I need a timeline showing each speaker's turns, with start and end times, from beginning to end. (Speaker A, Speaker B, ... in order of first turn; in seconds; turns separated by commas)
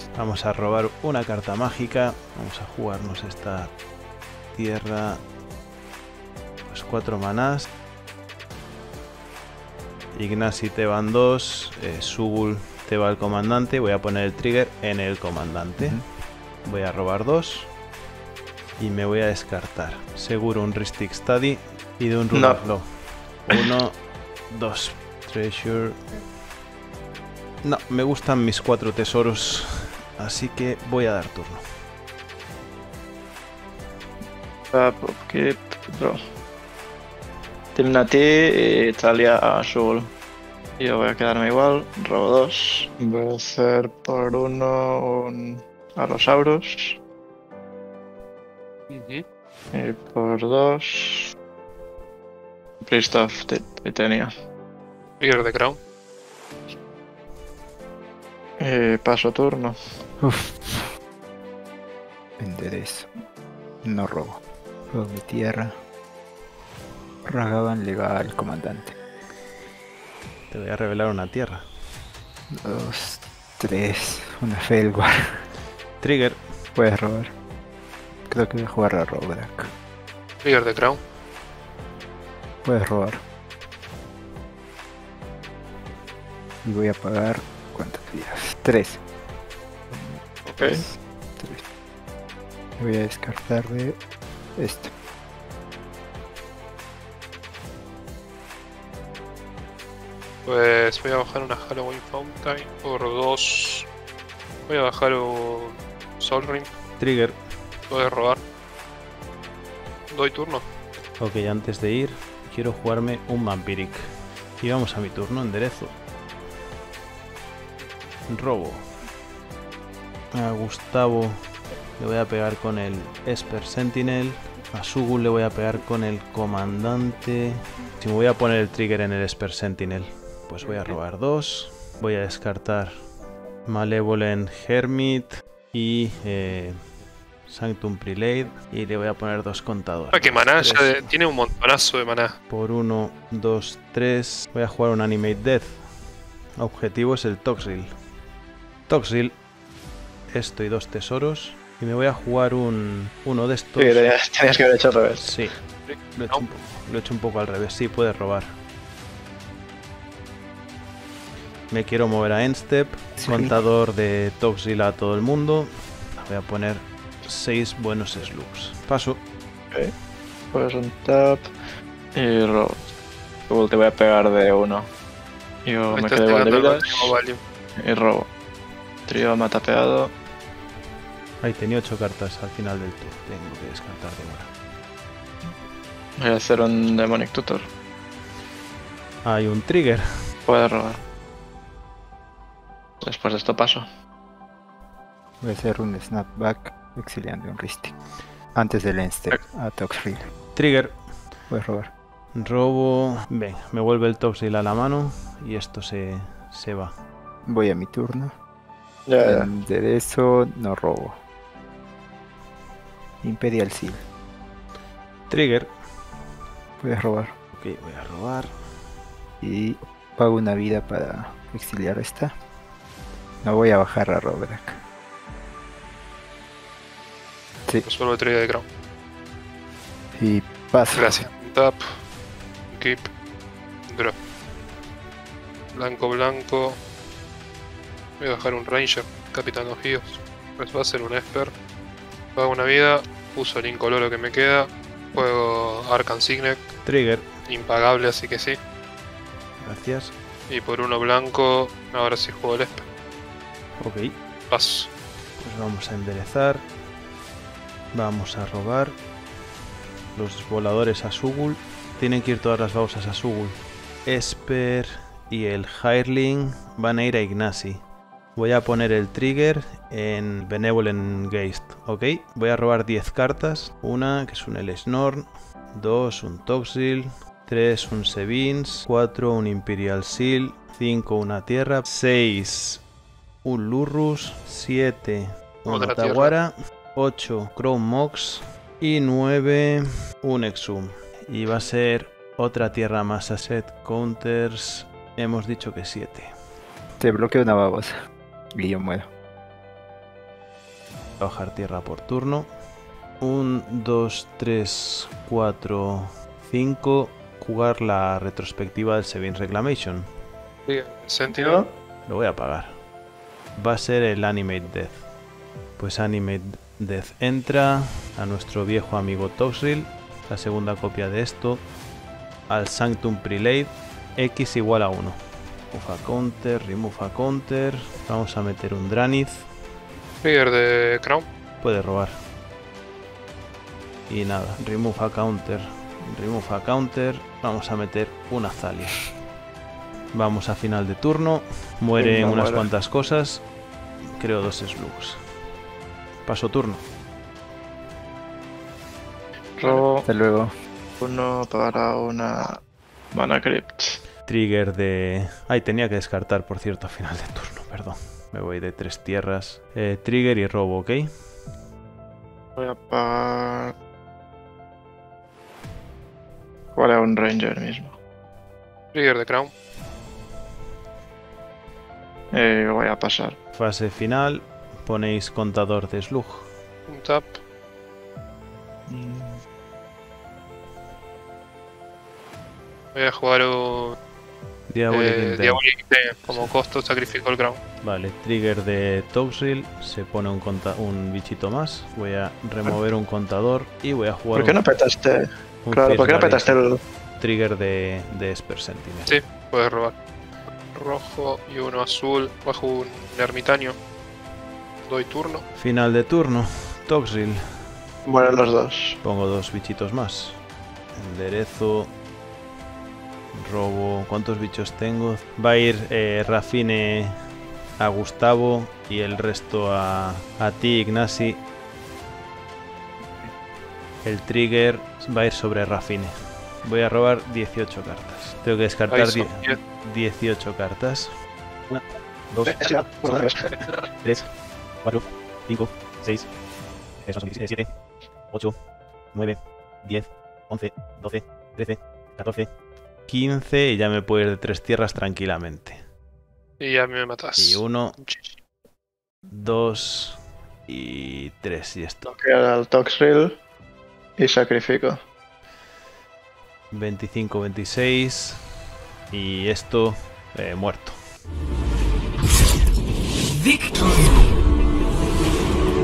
Speaker A: 0.1-3.7, Speaker A: 4.5-5.2, Speaker A: 6.7-7.7, Speaker A: 10.1-16.0, Speaker B: 15.8-16.0, Speaker A: 16.6-17.7, Speaker A: 18.8-22.9, Speaker C: 22.3-22.6, Speaker A: 23.4-24.0, Speaker A: 24.5-26.0, Speaker A: 27.6-31.6, Speaker C: 34.7-36.2, Speaker C: 37.7-40.1, Speaker C: 40.8-47.0, Speaker D: 48.9-49.2, Speaker C: 49.7-51.3, Speaker C: 52.8-54.3, Speaker D: 55.2-55.8, Speaker C: 58.6-59.8, Speaker B: 60.2-60.9, Speaker B: 62.4-63.1, Speaker B: 63.8-64.4, Speaker B: 64.9-65.8, Speaker B: 67.2-68.9, Speaker A: 70.5-71.6, Speaker B: 72.5-75.4, Speaker A: 76.0-76.4, Speaker B: 76.8-77.3, Speaker B: 78.3-79.7, Speaker D: 80.4-81.0, Speaker B: 82.6-83.2, Speaker B: 86.6-89.0, Speaker B: 89.9-91.6, Speaker C: 90.5-90.8, Speaker B: 92.8-94.0, Speaker B: 94.6-94.9, Speaker D: 100.4-103.9, Speaker D: 104.7-106.7, Speaker A: 107.0-107.4, Speaker D: 107.9-108.4, Speaker D: 110.1-110.6, Speaker A: 111.2-114.1, Speaker A: 114.6-115.9, Speaker A: 118.3-118.8, Speaker A: 120.3-121.4, Speaker A: 122.0-132.9, Speaker D: 130.6-131.0, Speaker A: 133.7-136.8, Speaker A: 137.4-141.1, Speaker D: 140.1-142.3, Speaker A: 142.5-145.8, Speaker A: 146.6-147.9, Speaker A: 148.9-149.4, Speaker A: 150.3-154.1, Speaker C: 153.8-155.3, Speaker A: 155.2-155.5, Speaker D: 155.9-156.4, Speaker A: 156.1-158.5, Speaker A: 161.7-169.2, Speaker B: 163.2-163.5, Speaker C: 170.5-171.5, Speaker C: 172.1-172.8, Speaker C: 173.5-174.9, Speaker C: 175.6-177.1, Speaker D: 175.9-177.4, Speaker C: 177.8-178.3, Speaker C: 179.1-180.1, Speaker A: 181.4-184.5, Speaker C: 186.2-187.7, Speaker A: 189.2-190.0, Speaker C: 190.4-191.0, Speaker C: 193.0-193.8, Speaker B: 195.4-197.9, Speaker B: 198.5-200.2, Speaker A: 200.5-201.0, Speaker B: 201.5-201.9, Speaker A: 202.3-206.9, Speaker B: 207.4-208.3, Speaker C: 209.1-209.5, Speaker B: 209.2-211.2, Speaker B: 213.2-214.0, Speaker A: 215.3-215.7, Speaker B: 216.8-217.3, Speaker A: 217.5-218.5, Speaker B: 219.4-222.3, Speaker B: 223.4-224.8, Speaker D: 227.8-228.6, Speaker B: 230.1-231.2, Speaker D: 230.9-231.9, Speaker D: 232.7-233.1, Speaker D: 233.9-234.1, Speaker D: 235.7-236.8, Speaker D: 238.2-241.5, Speaker D: 242.3-246.7, Speaker A: 246.8-247.2, Speaker D: 247.5-248.6, Speaker A: 249.6-250.1, Speaker D: 250.5-252.8, Speaker A: 253.8-254.1, Speaker D: 254.5-254.9, Speaker A: 255.4-256.6, Speaker A: 257.9-259.0, Speaker A: 260.1-267.8, Speaker A: 268.4-282.8, Speaker A: 283.4-296.3, Speaker D: 285.7-286.4, Speaker B: 297.0-297.9, Speaker B: 298.6-299.1, Speaker A: 301.2-302.5, Speaker A: 303.2-310.1, Speaker D: 310.7-311.6, Speaker C: 311.3-311.7, Speaker A: 312.1-312.7, Speaker A: 313.6-315.0, Speaker A: 315.8-321.6, Speaker A: 322.5-325.2, Speaker A: 325.7-329.4, Speaker D: 330.2-331.3, Speaker A: 331.6-332.1, Speaker A: 334.1-339.1, Speaker A: 340.1-343.4, Speaker C: 341.9-342.7, Speaker A: 344.2-345.2, Speaker A: 346.2-346.8, Speaker C: 349.6-350.1, Speaker B: 350.0-350.5, Speaker C: 351.0-352.5, Speaker C: 353.1-354.0, Speaker A: 354.2-361.1, Speaker C: 362.6-363.7, Speaker C: 366.7-368.0, Speaker D: 368.9-369.5, Speaker C: 372.3-373.4, Speaker A: 373.5-376.5, Speaker D: 376.9-377.4, Speaker C: 378.9-379.4, Speaker D: 382.9-384.0, Speaker A: 384.7-385.6, Speaker D: 384.9-387.6, Speaker A: 387.8-394.6, Speaker C: 394.3-396.8, Speaker A: 395.6-396.5, Speaker A: 397.2-399.2, Speaker D: 399.1-399.9, Speaker D: 400.7-403.8, Speaker D: 404.9-405.4, Speaker A: 405.6-407.4, Speaker C: 408.1-409.0, Speaker A: 409.0-410.4, Speaker A: 410.9-411.9, Speaker A: 413.3-417.1, Speaker A: 417.8-421.4, Speaker A: 424.0-426.1, Speaker A: 426.6-431.1, Speaker D: 428.9-429.6, Speaker A: 431.7-432.5, Speaker C: 432.5-433.5, Speaker A: 434.8-436.3, Speaker A: 437.0-437.7, Speaker A: 439.1-442.5, Speaker A: 443.1-445.8, Speaker D: 446.6-448.3, Speaker A: 447.4-447.9, Speaker A: 449.3-452.1, Speaker C: 452.1-453.4, Speaker C: 454.2-455.0, Speaker A: 456.7-458.4, Speaker A: 459.1-461.0